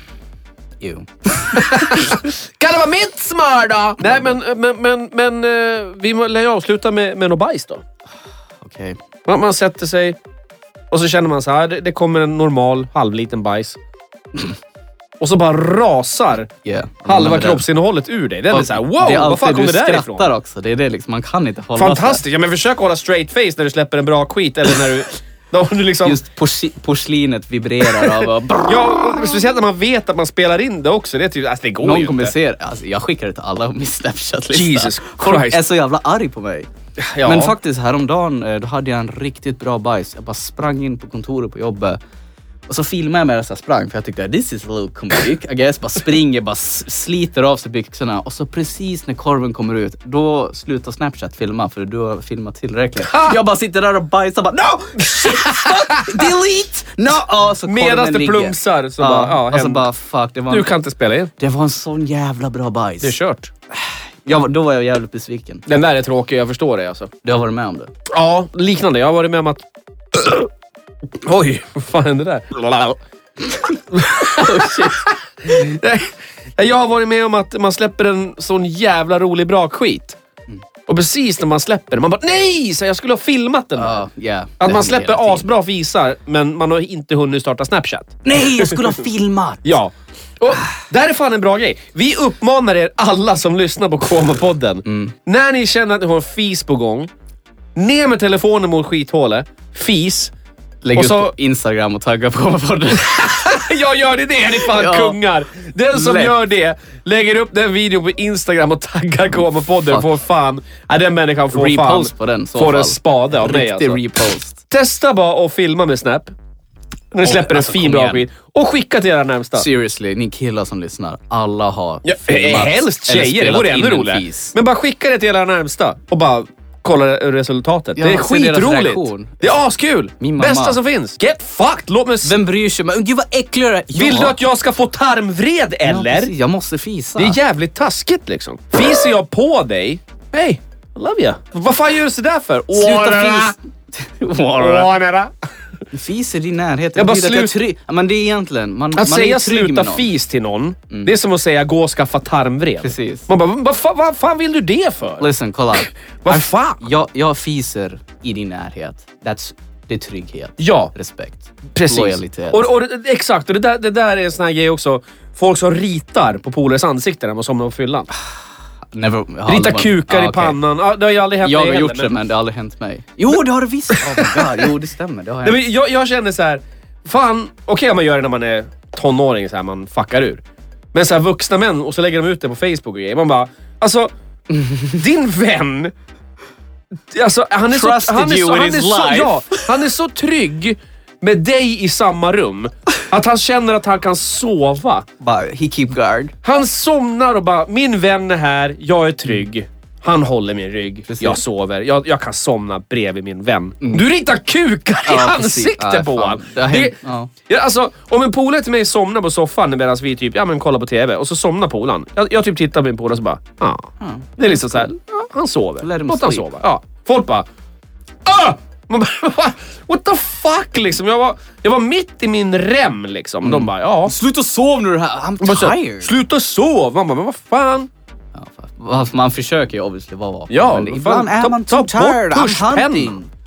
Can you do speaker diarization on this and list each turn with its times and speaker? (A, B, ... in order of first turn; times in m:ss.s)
0:00.8-0:02.1 A
0:01.5-0:07.8 B
0:08.6-0:09.0 A
0:09.3-0:10.2 B
0:10.9-0:13.8 B
0:15.2-0:16.5 B
0:16.6-0:17.6 A
0:17.1-0:20.3 B
0:18.5-0:22.2 A
0:21.8-0:26.2 B
0:26.0-0:29.3 A
0:27.9-0:32.4 B
0:31.8-0:36.7 A
0:34.5-0:35.6 B
0:37.0-0:37.6 B
0:37.2-0:42.0 A
0:42.7-1:00.7 A
0:53.0-0:53.4 B
0:55.2-0:56.2 B
0:57.6-0:59.9 B
1:00.5-1:01.3 B
1:01.4-1:03.2 A
1:03.0-1:03.5 B
1:04.2-1:05.7 A
1:05.7-1:07.1 B
1:07.2-1:07.9 A
1:08.1-1:10.5 B
1:11.2-1:13.0 B
1:13.6-1:20.2 B
1:14.2-1:15.1 A
1:20.9-1:24.0 B
1:23.8-1:25.5 A
1:24.6-1:29.0 B
1:28.2-1:29.8 A
1:29.6-1:37.1 B
1:34.9-1:35.2 A
1:37.8-1:40.3 B
1:40.8-1:43.6 A
1:41.0-1:41.4 B
1:43.1-1:54.0 B
1:44.6-1:45.2 A
1:45.9-1:46.3 A
1:51.5-1:54.6 A
1:54.7-1:56.3 B
1:57.1-1:59.7 B
1:57.2-1:58.2 A
1:59.6-2:04.6 A
2:02.0-2:12.4 B
2:08.0-2:09.4 A
2:10.2-2:10.8 A
2:12.2-2:14.4 A
2:13.9-2:16.3 B
2:15.9-2:17.4 A
2:17.2-2:23.6 B
2:22.7-2:24.9 A
2:24.6-2:25.3 B
2:25.9-2:30.1 A
2:27.0-2:27.6 B
2:28.9-2:35.3 B
2:32.8-2:33.3 A
2:35.2-2:42.7 A
2:36.2-2:36.8 B
2:40.6-2:40.9 B
2:41.8-2:48.1 B
2:48.9-2:50.6 A
2:49.5-2:52.2 B
2:51.4-2:55.7 A
2:53.9-2:54.7 B
2:55.4-3:00.4 B
3:00.9-3:04.1 B
3:04.6-3:04.9 A
3:04.8-3:05.9 B
3:07.1-3:15.1 B
3:07.7-3:09.7 A
3:15.2-3:16.4 A
3:16.4-3:37.5 B
3:21.1-3:21.4 A
3:25.0-3:27.3 A
3:34.0-3:34.3 A
3:35.8-3:36.6 A
3:38.2-3:44.1 B
3:43.4-3:46.1 A
3:45.4-3:47.9 B
3:48.4-3:53.3 A
3:50.5-3:53.2 B